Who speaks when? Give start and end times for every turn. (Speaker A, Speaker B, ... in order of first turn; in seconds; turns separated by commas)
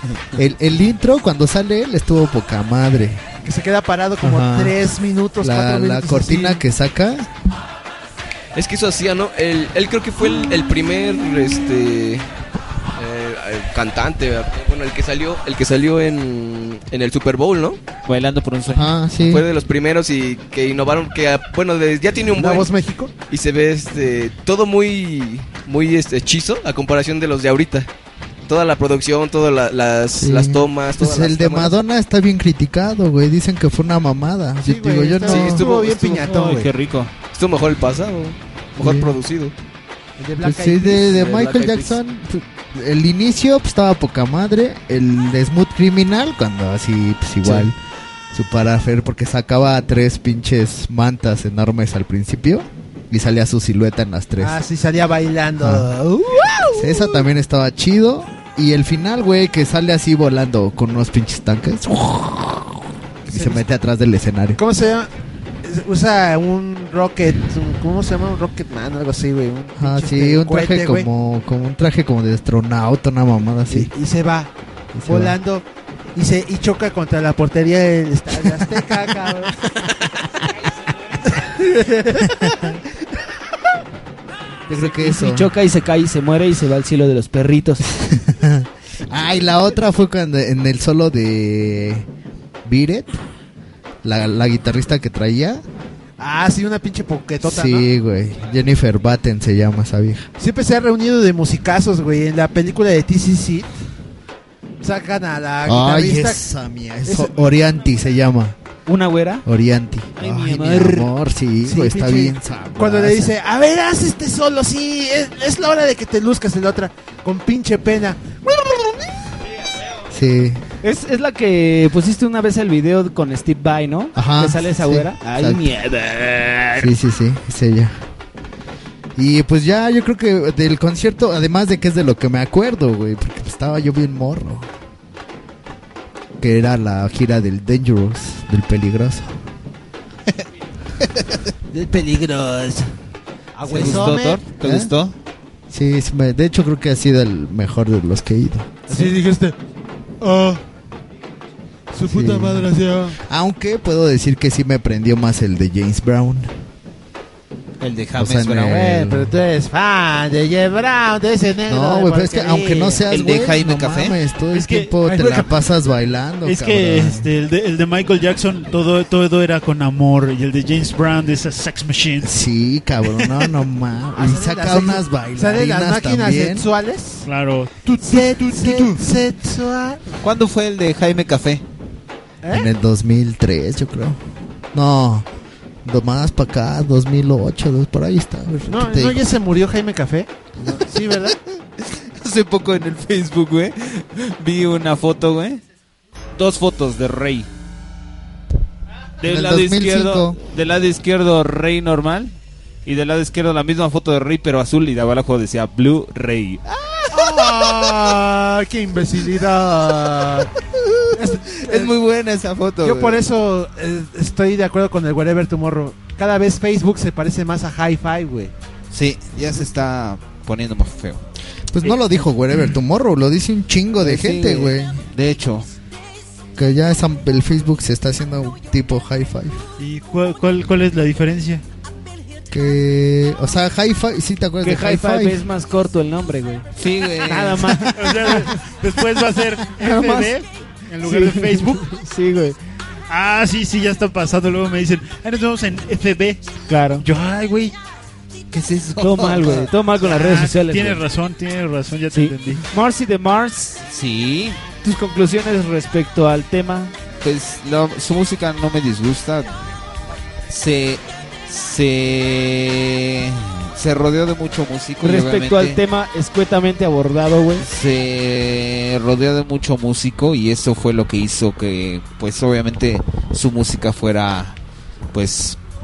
Speaker A: 0.3-3.2, Speaker B: 3.4-6.6, Speaker A: 4.2-4.8, Speaker A: 5.4-7.3, Speaker C: 8.6-12.3, Speaker C: 13.0-17.8, Speaker D: 18.1-18.9, Speaker A: 18.7-19.4, Speaker C: 19.2-22.7, Speaker B: 22.3-23.1, Speaker C: 23.3-27.9, Speaker C: 28.5-31.8, Speaker A: 30.2-35.6, Speaker B: 34.6-36.7, Speaker C: 35.3-36.3, Speaker D: 36.2-37.1, Speaker C: 37.3-39.5, Speaker A: 38.8-39.1, Speaker B: 40.2-41.3, Speaker A: 40.4-47.8, Speaker C: 41.1-42.0, Speaker A: 48.3-54.6, Speaker B: 54.4-57.2, Speaker A: 55.6-55.9, Speaker A: 56.8-64.6, Speaker B: 63.3-63.6, Speaker B: 64.6-65.1, Speaker B: 65.6-71.1, Speaker A: 69.8-73.9, Speaker B: 73.7-74.5, Speaker A: 74.9-75.4, Speaker B: 75.1-79.9, Speaker B: 81.3-82.8, Speaker A: 84.7-85.5, Speaker E: 84.7-87.9, Speaker A: 87.9-92.1, Speaker A: 92.7-93.2, Speaker A: 94.0-95.6, Speaker B: 96.2-97.9, Speaker A: 97.4-100.3, Speaker B: 100.4-103.7, Speaker B: 104.8-106.4, Speaker A: 105.7-108.6, Speaker B: 107.0-107.4, Speaker E: 108.9-109.4, Speaker A: 109.5-113.3, Speaker E: 110.2-111.1, Speaker B: 111.6-119.1, Speaker A: 120.1-120.6, Speaker E: 120.8-126.9, Speaker A: 124.2-125.7, Speaker A: 126.8-128.0, Speaker A: 129.2-134.7, Speaker A: 136.4-139.3, Speaker E: 141.9-142.6, Speaker B: 143.6-144.4, Speaker D: 143.7-145.1, Speaker A: 143.7-144.9, Speaker A: 145.7-149.1, Speaker B: 148.9-149.6, Speaker B: 150.2-150.6, Speaker B: 151.9-153.2, Speaker A: 152.1-156.5, Speaker D: 157.8-158.8, Speaker A: 158.2-159.4, Speaker B: 158.7-163.0, Speaker A: 161.7-167.3, Speaker D: 163.1-164.2, Speaker F: 164.5-164.9, Speaker B: 165.1-165.5, Speaker F: 166.4-172.3, Speaker A: 172.2-176.7, Speaker B: 174.2-177.3, Speaker F: 177.3-177.7, Speaker B: 177.8-180.0, Speaker D: 180.2-181.6, Speaker A: 182.5-184.2, Speaker A: 184.7-185.3, Speaker A: 185.8-189.3, Speaker B: 188.7-191.4, Speaker D: 191.8-195.6, Speaker D: 196.4-197.5, Speaker D: 199.2-202.3, Speaker A: 199.2-200.4, Speaker D: 202.9-208.1, Speaker B: 207.1-210.5, Speaker D: 210.9-213.3, Speaker B: 211.1-211.9, Speaker B: 212.8-218.5, Speaker D: 218.9-221.2, Speaker A: 221.7-225.0, Speaker D: 224.0-225.7, Speaker A: 226.6-229.6, Speaker F: 229.8-231.6, Speaker A: 232.5-235.4, Speaker E: 234.6-236.7, Speaker D: 236.8-237.8, Speaker E: 237.2-238.3, Speaker F: 237.9-241.9, Speaker E: 239.8-240.3, Speaker E: 241.0-242.6, Speaker F: 243.1-246.4, Speaker E: 246.7-247.1, Speaker F: 247.0-247.7, Speaker D: 248.5-249.7, Speaker E: 249.0-251.0, Speaker F: 250.0-252.7, Speaker E: 252.1-253.8, Speaker D: 253.9-254.6, Speaker E: 254.8-256.9, Speaker D: 257.2-259.6, Speaker D: 260.5-265.8, Speaker E: 265.0-267.6, Speaker D: 267.6-274.6, Speaker D: 275.1-275.6